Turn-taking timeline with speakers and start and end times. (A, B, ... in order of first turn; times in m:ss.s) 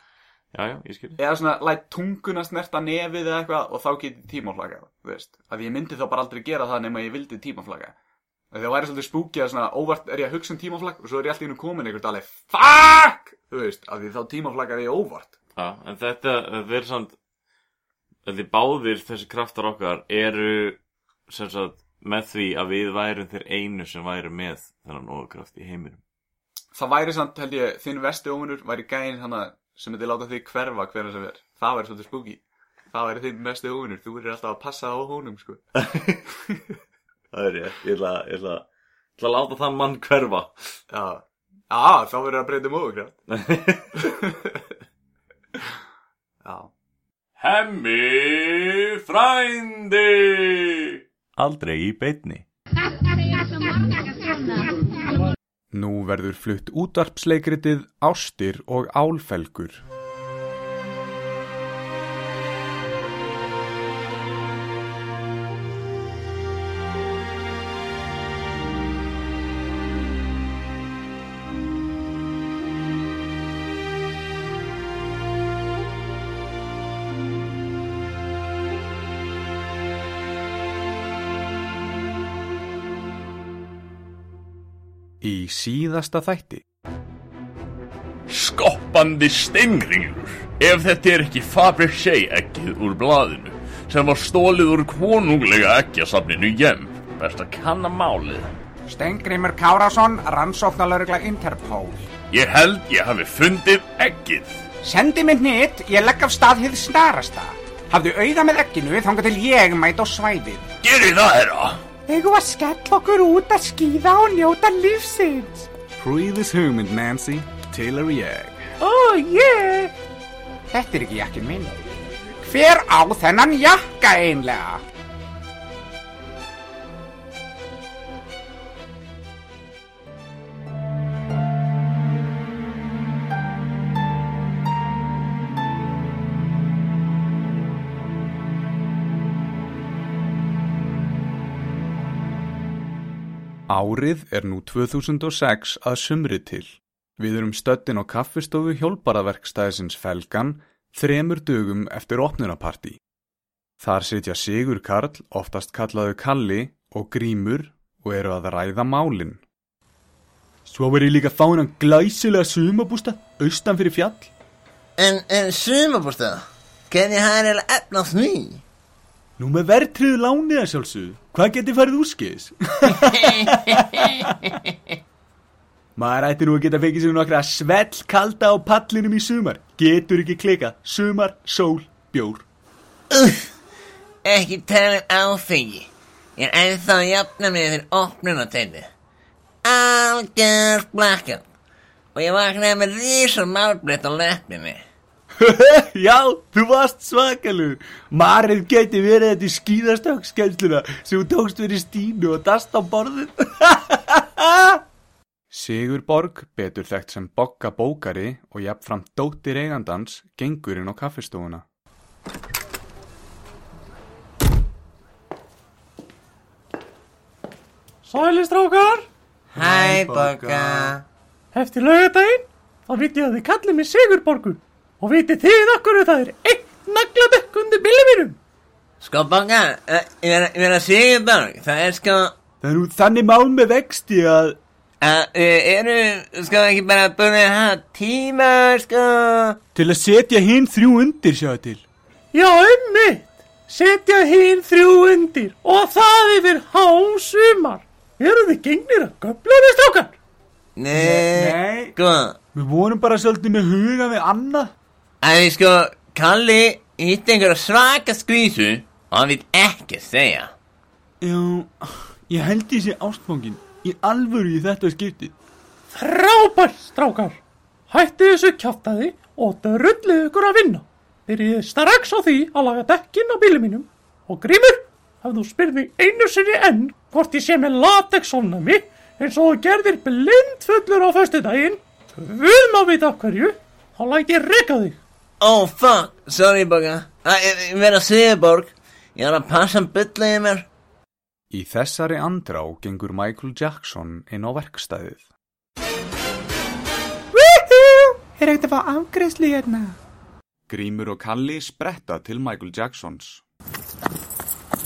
0:00.5-0:01.2 A
0:01.2-0:07.9 B
0:08.5-0:15.4 B
0:15.6-0:17.2 A
0:18.3-0:26.0 A
0:26.7-0:35.6 B
0:35.8-0:36.2 A
0:37.3-0:38.7 A
0:39.2-0:40.7 A
0:40.9-0:43.2 B
0:43.3-0:44.1 A
0:44.0-0:44.6 B
0:46.4-0:46.7 B
0:47.4-0:51.0 C
0:51.4-0:52.5 A
0:55.7-0:59.8 B
1:25.2-1:26.6 B
1:28.3-1:38.5 C
1:38.9-1:42.1 D
1:42.3-1:44.6 C
1:44.8-1:50.8 D
1:50.8-1:51.8 C
1:52.1-1:55.7 D
1:56.0-1:58.6 B
1:58.8-1:59.9 E
2:00.7-2:01.8 D
2:02.4-2:04.8 D
2:23.7-2:33.0 B
2:33.8-2:39.4 B
2:40.7-2:44.3 B
2:45.0-2:48.6 F
2:49.4-2:54.5 B
2:56.0-3:02.4 B
3:03.1-3:03.5 F
3:04.2-3:08.9 F
3:09.6-3:11.4 F
3:12.2-3:14.8 F
3:15.4-3:24.8 B
3:25.5-3:31.6 B
3:38.0-3:39.1 E
3:39.6-3:41.0 B
3:39.6-3:41.0 F
3:41.5-3:48.4 E
3:49.0-3:52.3 F
3:52.6-3:54.6 B
3:55.0-3:59.6 F
3:59.8-4:01.8 B
4:02.3-4:10.2 E
4:10.8-4:12.4 F
4:10.9-4:12.0 B
4:12.5-4:14.7 B
4:15.2-4:20.5 F
4:21.2-4:25.4 B
4:25.9-4:27.4 E
4:27.9-4:45.0 E
4:45.4-4:50.6 F
4:51.5-4:55.3 B
4:57.3-5:00.0 D
5:00.7-5:03.4 B